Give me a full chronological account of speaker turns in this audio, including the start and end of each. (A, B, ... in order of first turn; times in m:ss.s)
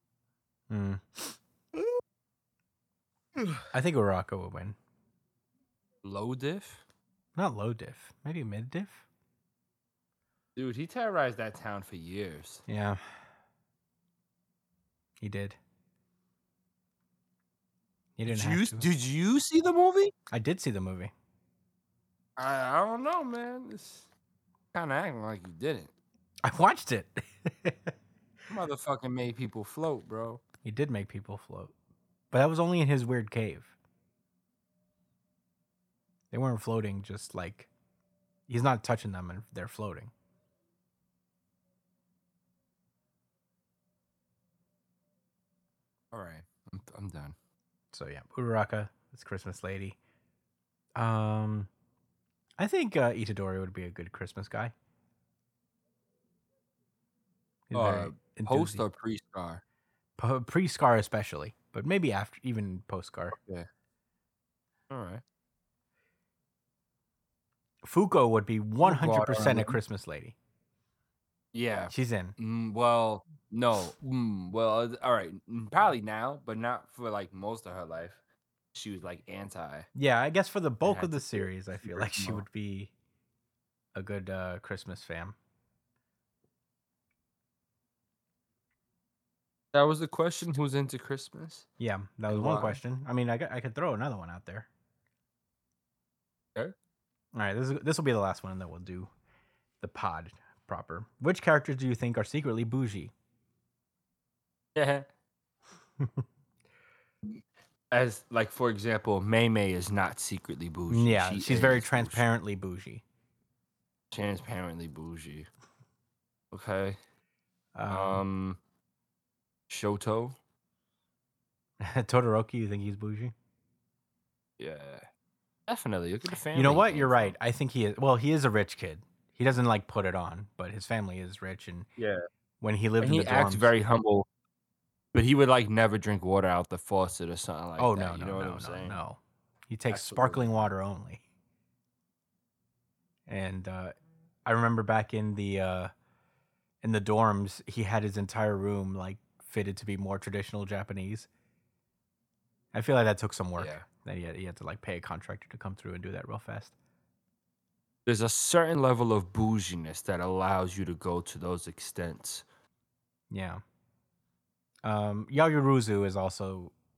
0:00.7-0:01.4 A
0:03.7-0:04.8 A
0:06.0-0:06.8 B
0:07.4-0:09.0 A
0:10.6-0:12.6 B
0:12.7-0:13.0 A
0:15.2-0:15.6 A
0:18.2-0:18.9 A
0:18.3-0:20.1 B
0:20.3-0:21.1 A
0:22.4-0:24.1 B
0:24.7-0:25.9 B
0:26.4-0:27.9 A
0:28.5-0:30.4 B
0:30.6-0:31.7 A
0:32.3-0:33.7 A
0:36.3-0:37.7 A
0:38.5-0:40.1 A
0:46.1-0:47.4 B
0:47.9-0:50.0 A
0:51.0-0:51.7 A
0:52.6-0:54.7 A
0:57.7-0:58.8 A
0:57.7-0:59.6 B
1:00.2-1:03.4 A
1:03.3-1:03.7 B
1:04.9-1:05.2 B
1:07.8-1:10.4 A
1:08.8-1:09.8 B
1:11.5-1:18.2 B
1:11.9-1:12.4 A
1:18.7-1:19.9 B
1:20.0-1:22.9 A
1:20.8-1:22.4 B
1:24.0-1:25.4 A
1:29.7-1:31.7 B
1:31.8-1:34.7 A
1:32.3-1:32.8 B
1:37.3-1:39.1 A
1:39.8-1:43.1 A
1:44.7-1:45.1 B
1:47.2-1:52.2 B
1:50.9-1:53.0 A
1:54.1-1:55.5 B
1:56.5-1:57.0 B
1:57.7-1:58.2 A
1:57.9-1:58.6 B
1:59.7-2:00.4 B
2:01.8-2:03.3 A
2:04.6-2:05.1 B
2:05.7-2:07.4 B
2:06.6-2:11.9 A
2:12.0-2:12.2 B
2:12.6-2:13.7 A
2:13.0-2:14.3 B
2:15.1-2:19.0 B
2:17.8-2:21.2 A
2:19.9-2:20.7 B
2:23.3-2:23.9 A
2:24.4-2:25.9 A
2:26.8-2:31.3 A
2:32.7-2:36.7 A
2:33.6-2:33.8 B
2:38.1-2:42.4 B
2:43.3-2:43.6 A
2:44.8-2:46.7 A